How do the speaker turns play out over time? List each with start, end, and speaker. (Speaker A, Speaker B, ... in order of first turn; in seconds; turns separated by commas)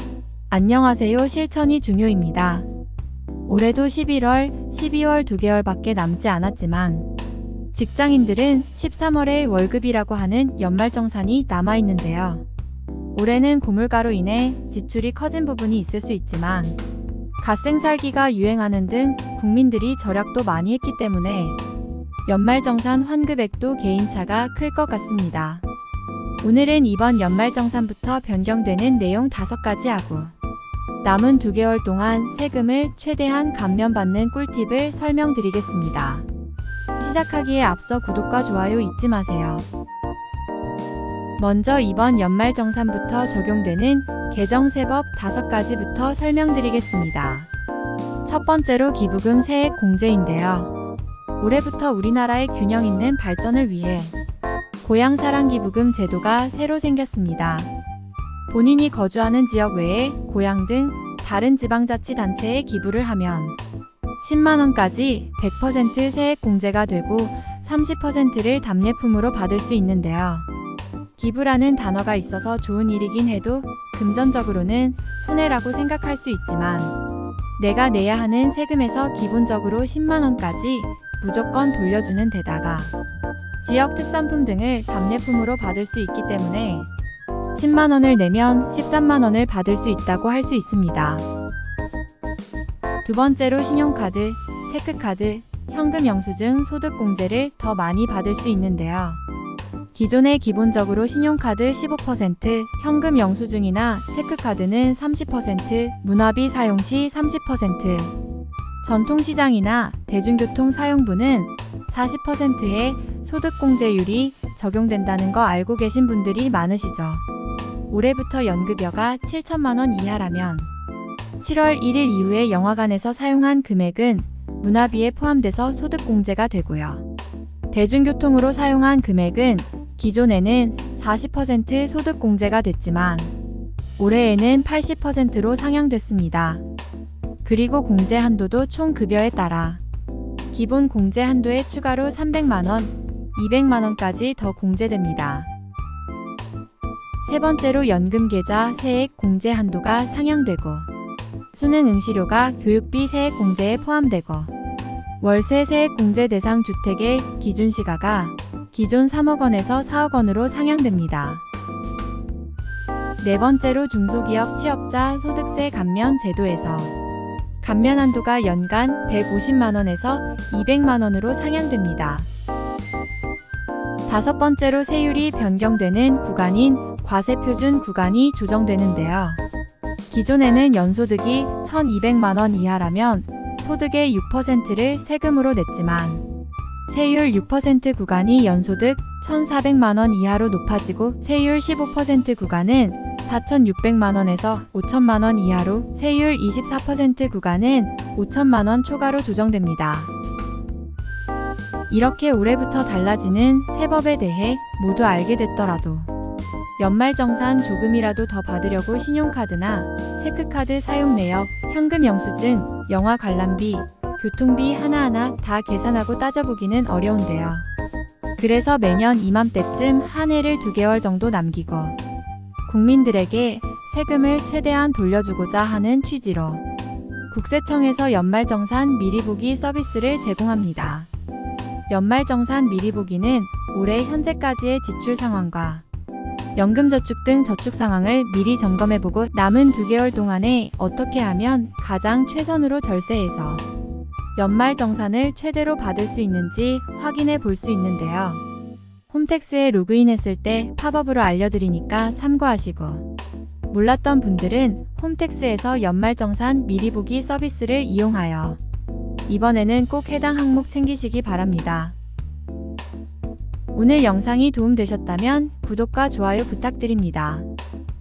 Speaker A: 0.5-2.7, Speaker A: 3.5-7.1, Speaker A: 7.7-12.4, Speaker A: 13.1-16.8, Speaker A: 17.4-21.6, Speaker A: 22.2-25.6, Speaker A: 26.4-30.4, Speaker A: 31.0-36.3, Speaker A: 37.0-39.7, Speaker A: 41.4-47.5, Speaker A: 48.2-50.7, Speaker A: 51.4-54.1, Speaker A: 54.8-57.7, Speaker A: 58.5-63.6, Speaker A: 64.2-70.5, Speaker A: 71.2-77.0, Speaker A: 77.6-82.9, Speaker A: 83.6-86.9, Speaker A: 87.5-91.3, Speaker A: 93.0-99.2, Speaker A: 99.9-108.1, Speaker A: 108.8-117.2, Speaker A: 117.9-120.7, Speaker A: 121.4-127.1, Speaker A: 127.7-133.3, Speaker A: 134.0-136.7, Speaker A: 137.4-139.8, Speaker A: 140.5-145.5, Speaker A: 147.2-150.9, Speaker A: 151.5-154.5, Speaker A: 155.2-161.4, Speaker A: 163.2-166.9, Speaker A: 167.6-172.3, Speaker A: 174.1-179.4, Speaker A: 180.1-186.2, Speaker A: 186.9-200.1, Speaker A: 201.9-206.1, Speaker A: 206.8-217.7, Speaker A: 218.4-222.0, Speaker A: 222.7-226.6, Speaker A: 227.3-231.1, Speaker A: 231.9-235.8, Speaker A: 236.6-243.6, Speaker A: 244.3-248.4, Speaker A: 249.1-253.1, Speaker A: 253.7-258.6, Speaker A: 259.3-262.0, Speaker A: 263.7-267.5